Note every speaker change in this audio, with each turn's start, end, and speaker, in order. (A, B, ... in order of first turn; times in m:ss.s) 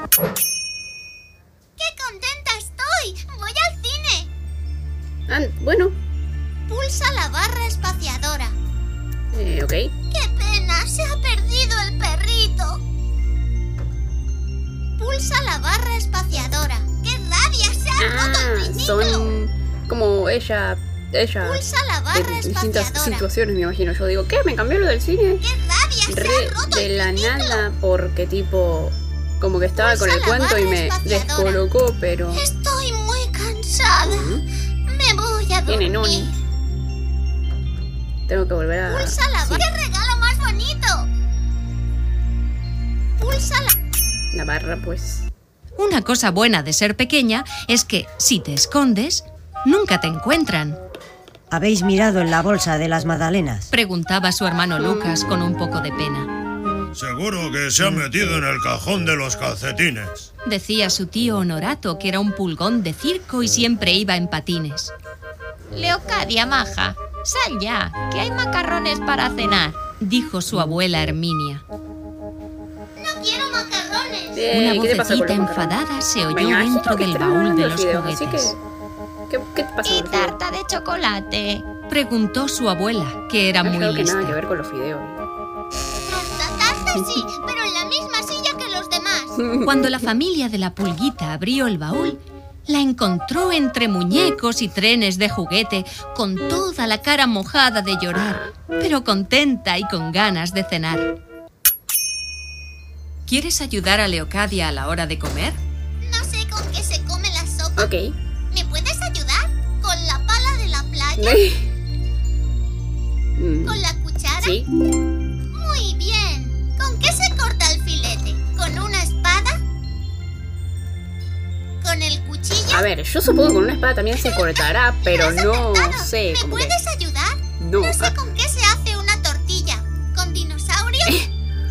0:01.8-0:04.3 A
0:05.3-0:06.0 B
0:06.7-0:08.5 A
0:09.3-0:09.9 B
0:10.1-0:12.8 A
0:15.0-0:19.3 A
0:18.0-0:21.6 B
0:21.4-0:23.3 A
0:22.1-0:25.4 B
0:25.4-0:27.6 A
0:26.1-0:32.4 B
0:29.8-0:31.6 A
0:32.3-0:34.3 A
0:34.0-0:34.4 B
0:34.9-0:36.4 A
0:35.7-0:36.3 B
0:38.3-0:39.7 B
0:38.8-0:41.1 A
0:43.2-0:43.7 A
0:44.3-0:45.3 B
0:45.8-0:50.8 C
0:51.5-0:53.7 D
0:53.7-0:56.3 C
0:54.8-0:55.2 B
0:56.9-1:00.3 E
1:00.4-1:04.9 C
1:05.7-1:09.8 F
1:10.0-1:11.6 C
1:13.0-1:14.5 A
1:14.3-1:15.8 B
1:14.5-1:18.5 C
1:16.3-1:18.6 B
1:19.3-1:20.4 B
1:19.8-1:21.6 F
1:21.9-1:24.4 C
1:23.6-1:25.2 B
1:26.1-1:29.4 A
1:29.4-1:29.8 B
1:29.6-1:41.1 C
1:38.1-1:38.5 B
1:43.3-1:45.6 C
1:46.0-1:47.9 A
1:47.8-1:48.1 B
1:48.5-1:51.4 A
1:51.2-1:51.7 B
1:53.4-1:53.8 B
1:53.6-1:54.6 A
1:54.4-1:54.7 B
1:55.5-1:59.6 A
2:01.8-2:02.9 A
2:02.7-2:06.7 B
2:04.2-2:11.2 A
2:07.6-2:08.2 B